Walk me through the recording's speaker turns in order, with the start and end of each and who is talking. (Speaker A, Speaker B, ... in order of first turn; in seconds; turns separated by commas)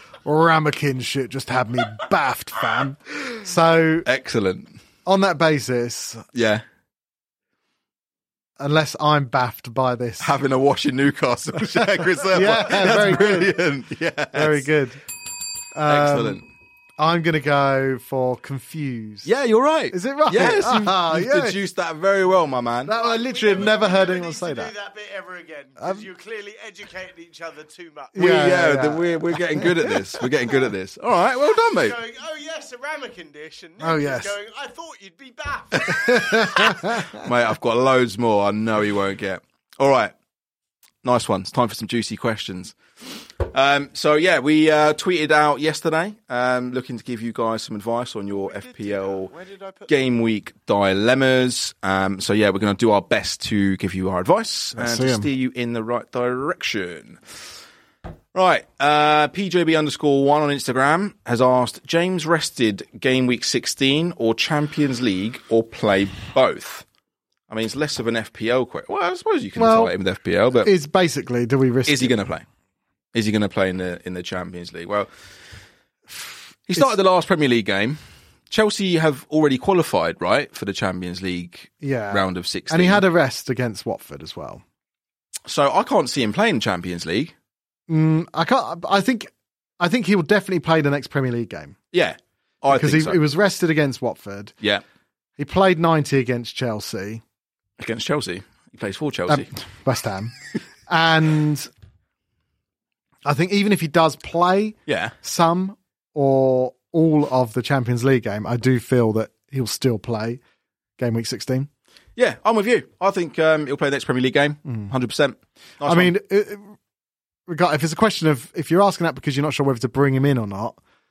Speaker A: 0.2-4.1, Speaker B: 4.0-4.8, Speaker A: 5.0-6.3, Speaker B: 6.3-6.6, Speaker A: 8.6-10.3, Speaker B: 10.2-14.7, Speaker A: 12.3-13.6, Speaker A: 14.3-15.0, Speaker A: 15.7-16.4, Speaker B: 15.8-16.4, Speaker A: 17.0-19.3, Speaker B: 19.2-22.9, Speaker A: 19.9-21.6, Speaker A: 22.8-24.7, Speaker C: 22.9-28.1, Speaker A: 25.8-26.0, Speaker A: 28.1-30.0, Speaker B: 28.1-32.0, Speaker C: 31.6-36.6, Speaker A: 33.8-34.3, Speaker A: 35.9-37.2, Speaker B: 36.5-40.1, Speaker B: 41.0-49.3, Speaker C: 48.3-49.9, Speaker B: 49.9-57.2, Speaker A: 54.7-55.3, Speaker B: 58.3-66.8, Speaker B: 67.5-70.7, Speaker A: 69.5-69.9, Speaker A: 70.6-72.2, Speaker B: 71.8-72.4, Speaker B: 73.1-75.1, Speaker A: 76.2-76.9, Speaker B: 76.7-78.0, Speaker B: 78.5-83.0, Speaker A: 81.8-84.6, Speaker B: 85.5-87.3, Speaker A: 87.9-91.8, Speaker B: 91.9-93.2, Speaker A: 92.7-94.5, Speaker A: 95.4-97.2, Speaker B: 97.8-99.5, Speaker A: 99.3-100.3, Speaker A: 100.9-101.7, Speaker A: 103.2-110.4, Speaker B: 104.9-105.1, Speaker A: 111.0-111.7, Speaker B: 112.2-116.1, Speaker A: 114.6-114.9, Speaker A: 115.8-116.8, Speaker A: 117.5-120.8